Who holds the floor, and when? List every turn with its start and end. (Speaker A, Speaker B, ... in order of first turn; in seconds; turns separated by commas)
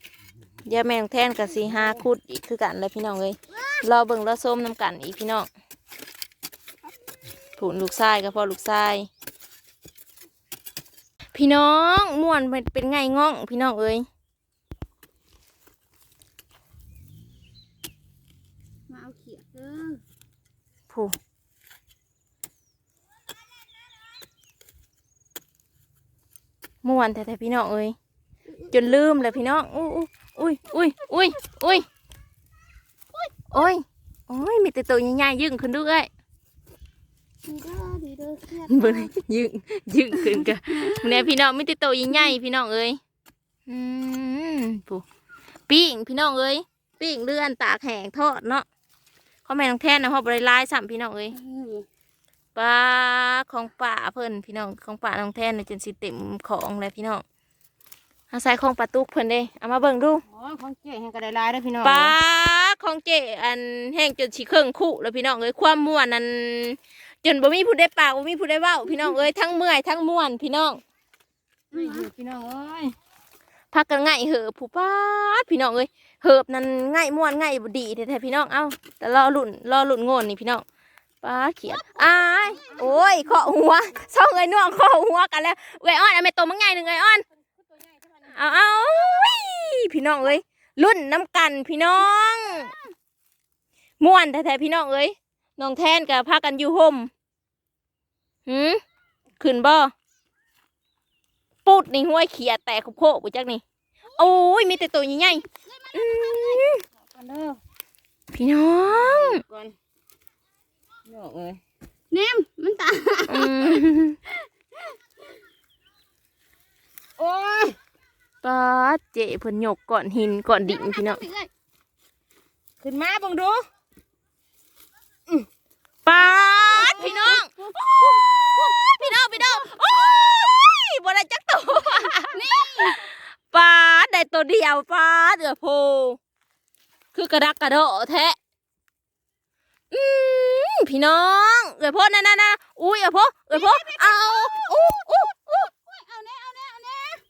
Speaker A: 0.6-5.5, Speaker A: 7.6-9.1, Speaker A: 11.3-14.1, Speaker B: 18.9-20.0, Speaker A: 20.9-21.1, Speaker A: 26.8-27.9, Speaker B: 28.5-29.1, Speaker A: 28.7-31.9, Speaker A: 33.5-36.1, Speaker B: 37.4-39.1, Speaker A: 38.6-43.0, Speaker B: 40.2-41.2, Speaker A: 43.7-45.0, Speaker A: 45.7-48.6, Speaker A: 49.5-51.4, Speaker B: 51.3-51.8, Speaker A: 52.5-57.2, Speaker A: 58.3-60.2, Speaker C: 60.3-62.1, Speaker A: 61.8-70.8, Speaker B: 71.7-72.1, Speaker C: 71.7-72.9, Speaker A: 73.7-80.6, Speaker A: 81.2-87.2, Speaker C: 87.7-88.3, Speaker A: 88.2-92.7, Speaker A: 94.0-97.1, Speaker A: 98.5-98.8, Speaker A: 99.4-99.9, Speaker A: 101.6-103.6, Speaker A: 104.1-106.8, Speaker B: 106.2-106.6, Speaker C: 107.0-107.6, Speaker A: 108.3-109.4, Speaker C: 108.9-109.8, Speaker C: 111.1-111.6, Speaker B: 112.1-113.7, Speaker A: 113.3-114.2, Speaker C: 117.2-117.8, Speaker A: 118.4-121.2, Speaker C: 122.8-123.6, Speaker A: 126.0-127.5, Speaker C: 126.7-128.2, Speaker B: 126.8-127.4, Speaker A: 128.7-136.2, Speaker B: 132.3-132.8, Speaker A: 137.1-138.4, Speaker A: 139.9-145.3, Speaker C: 143.7-144.4